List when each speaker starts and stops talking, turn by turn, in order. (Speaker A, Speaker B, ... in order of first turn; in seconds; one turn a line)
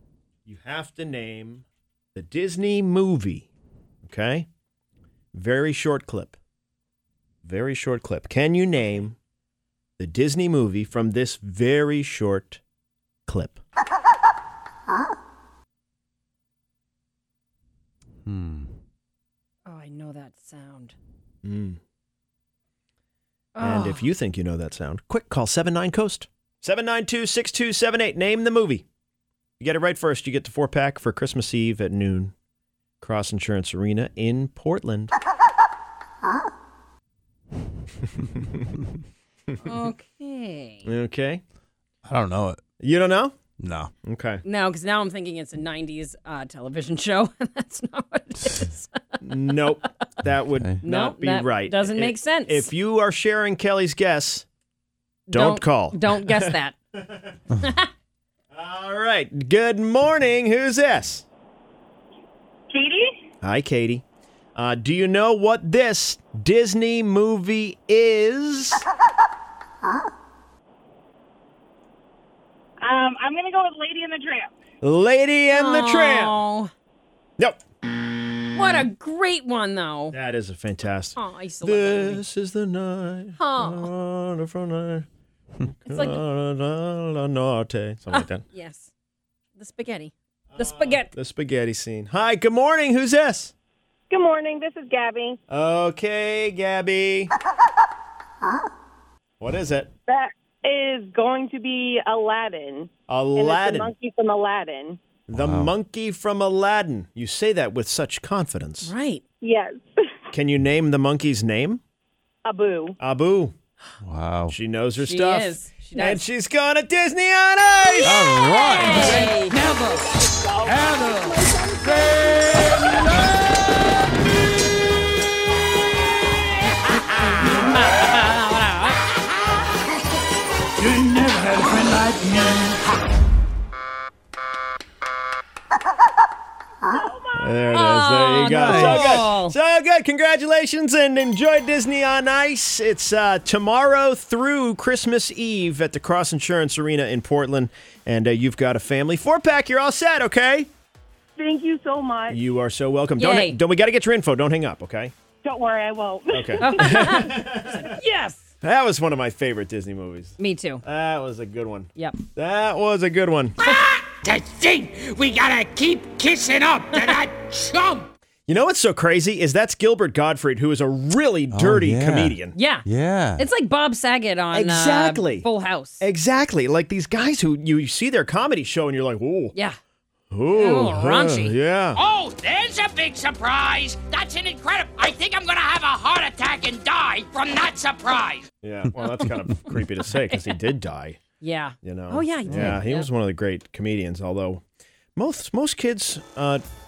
Speaker A: 0.5-3.5
Speaker A: 4.0-4.5
Speaker A: 5.3-6.4
Speaker A: 7.4-9.2
Speaker A: 10.0-12.6
Speaker A: 13.3-13.6
Speaker B: 18.2-18.7
Speaker C: 19.7-20.9
Speaker A: 21.4-21.8
Speaker C: 23.6-24.1
Speaker A: 23.6-28.9
Speaker A: 29.6-32.3
Speaker A: 33.0-35.1
Speaker C: 39.6-40.9
Speaker A: 40.9-41.4
Speaker B: 42.0-42.6
Speaker A: 42.8-43.4
Speaker B: 43.6-43.9
Speaker A: 44.0-44.4
Speaker C: 44.5-49.9
Speaker A: 49.2-54.5
Speaker C: 50.8-52.7
Speaker C: 55.3-56.8
Speaker A: 55.3-57.4
Speaker C: 57.6-57.9
Speaker A: 58.5-61.2
Speaker D: 62.7-63.1
Speaker A: 63.4-64.0
Speaker A: 64.6-68.8
Speaker D: 72.8-74.5
Speaker A: 74.8-76.4
Speaker C: 75.5-76.7
Speaker C: 78.5-80.2
Speaker A: 80.1-85.1
Speaker C: 81.2-82.2
Speaker C: 83.4-83.9
Speaker A: 85.6-88.4
Speaker C: 85.9-86.2
Speaker C: 88.1-88.9
Speaker C: 89.6-91.1
Speaker A: 90.5-93.5
Speaker D: 94.1-95.4
Speaker A: 95.5-97.3
Speaker A: 99.4-99.9
Speaker D: 100.1-105.0
Speaker A: 103.1-103.9
Speaker A: 105.3-108.9
Speaker B: 105.3-105.7
Speaker C: 108.8-109.2
Speaker D: 109.4-109.9
Speaker A: 110.3-111.8
Speaker D: 112.5-113.0
Speaker A: 113.0-113.5
Speaker B: 114.0-114.5
Speaker A: 114.5-118.2
Speaker C: 115.0-116.2
Speaker B: 118.0-119.2
Speaker C: 118.1-120.0
Speaker E: 119.0-119.9
Speaker D: 120.2-123.1
Speaker E: 120.7-123.3
Speaker E: 127.2-127.6
Speaker C: 127.5-129.0
Speaker E: 130.8-132.8
Speaker D: 136.8-137.6
Speaker A: 137.4-150.7
Speaker C: 137.7-139.6
Speaker B: 138.4-139.3
Speaker D: 151.4-152.4
Speaker A: 152.3-155.1
Speaker C: 153.2-153.6
Speaker D: 155.4-157.1
Speaker A: 156.3-157.9
Speaker C: 156.6-158.5
Speaker A: 158.6-163.6
Speaker C: 160.4-160.8
Speaker E: 163.6-168.1
Speaker C: 166.9-167.2
Speaker A: 168.5-172.6
Speaker B: 171.5-173.4
Speaker C: 172.5-172.8
Speaker C: 173.4-176.0
Speaker A: 174.5-175.5
Speaker A: 176.0-179.5
Speaker A: 180.3-182.0
Speaker C: 180.5-181.6
Speaker E: 181.9-188.5
Speaker A: 188.6-191.2
Speaker C: 190.2-190.7
Speaker C: 191.4-193.1
Speaker A: 191.8-194.6
Speaker B: 192.5-192.8
Speaker A: 195.2-196.6